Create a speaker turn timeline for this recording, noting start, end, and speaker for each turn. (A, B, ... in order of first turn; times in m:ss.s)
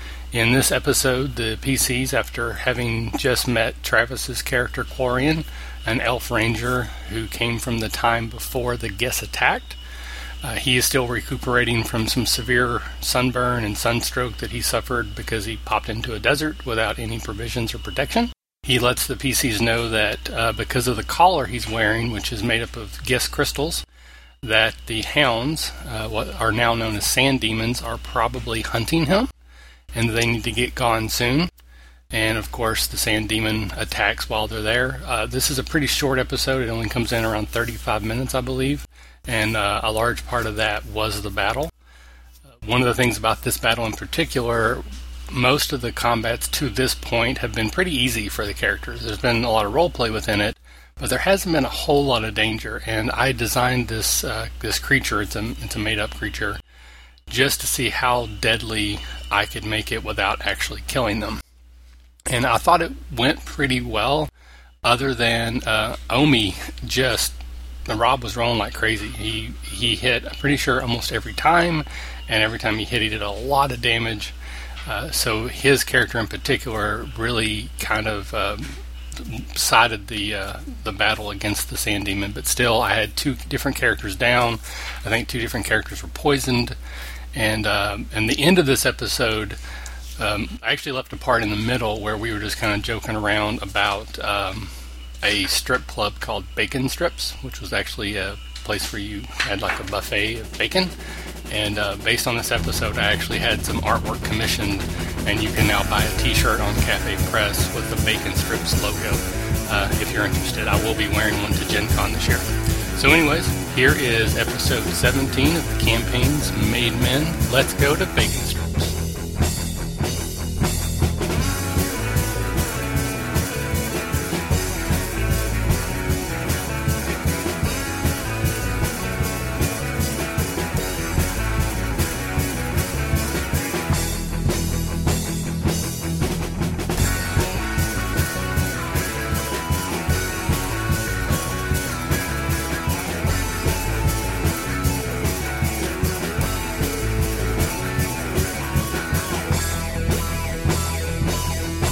0:00.3-0:09.8 A
0:10.4-0:23.8 A
0:24.4-0:29.3 A
0:29.9-0:31.5 A
0:32.1-0:41.7 A
0:42.6-0:56.6 A
0:57.3-1:01.4 A
1:02.3-1:04.3 A
1:04.8-1:14.4 A
1:14.9-1:26.8 A
1:27.3-1:29.6 A
1:30.2-1:40.9 A
1:41.5-1:59.0 A